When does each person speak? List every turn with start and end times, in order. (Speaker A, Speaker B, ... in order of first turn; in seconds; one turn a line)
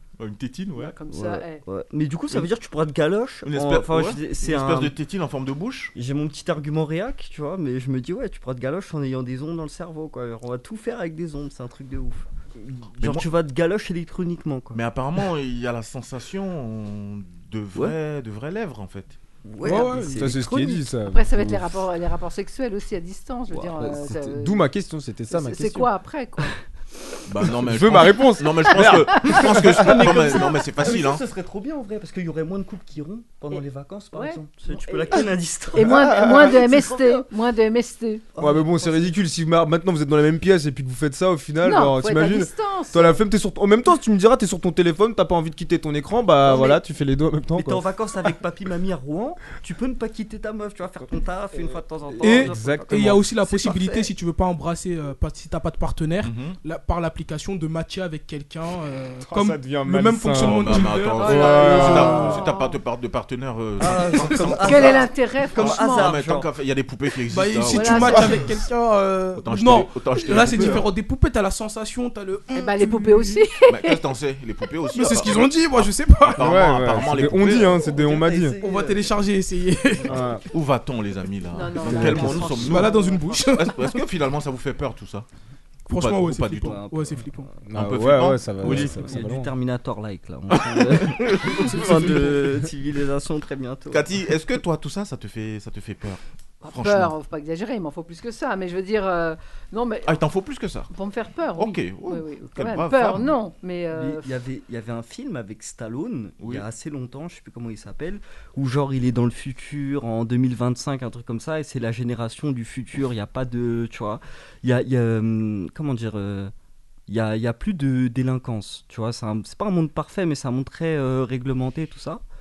Speaker A: 0.2-0.9
Speaker B: 0.8-1.6
Speaker C: 1.1-5.0
Speaker A: 3.5-5.9
Speaker C: 6.0-14.8
Speaker A: 13.0-13.3
Speaker A: 14.7-19.2
Speaker C: 19.4-20.8
Speaker D: 19.6-20.4
Speaker E: 20.2-21.7
Speaker B: 21.1-24.6
Speaker E: 23.8-25.9
Speaker B: 25.3-26.6
Speaker A: 27.3-31.2
Speaker E: 27.5-30.1
Speaker C: 29.6-37.3
Speaker B: 34.1-38.3
Speaker E: 35.8-36.6
Speaker C: 38.4-39.1
Speaker E: 38.4-47.8
Speaker B: 41.6-43.2
Speaker C: 46.5-46.8
Speaker C: 47.5-54.1
Speaker D: 52.2-62.4
Speaker E: 52.2-53.2
Speaker A: 56.2-56.6
Speaker E: 59.2-62.4
Speaker A: 60.4-68.6
Speaker B: 61.2-62.8
Speaker C: 63.8-66.5
Speaker B: 64.6-66.2
Speaker D: 67.3-73.4
Speaker B: 67.7-68.4
Speaker A: 69.4-70.9
Speaker E: 70.3-70.8
Speaker B: 72.5-74.0
Speaker A: 73.7-77.8
Speaker D: 74.9-76.7
Speaker E: 76.3-78.6
Speaker C: 77.5-79.1
Speaker D: 78.6-80.3
Speaker C: 80.0-80.4
Speaker E: 80.1-80.4
Speaker A: 80.5-85.3
Speaker B: 81.5-83.4
Speaker E: 81.9-82.5
Speaker C: 82.0-82.6
Speaker D: 82.5-84.0
Speaker D: 85.9-87.5
Speaker A: 85.9-86.8
Speaker C: 86.6-87.6
Speaker E: 87.7-89.5
Speaker A: 87.7-89.0
Speaker C: 88.6-94.2
Speaker A: 90.5-92.4
Speaker D: 91.9-92.3
Speaker A: 93.9-97.1
Speaker B: 96.6-100.2
Speaker A: 100.1-100.9
Speaker B: 100.9-104.3
Speaker A: 101.6-103.3
Speaker C: 103.9-116.5
Speaker A: 106.4-106.7
Speaker C: 117.1-122.2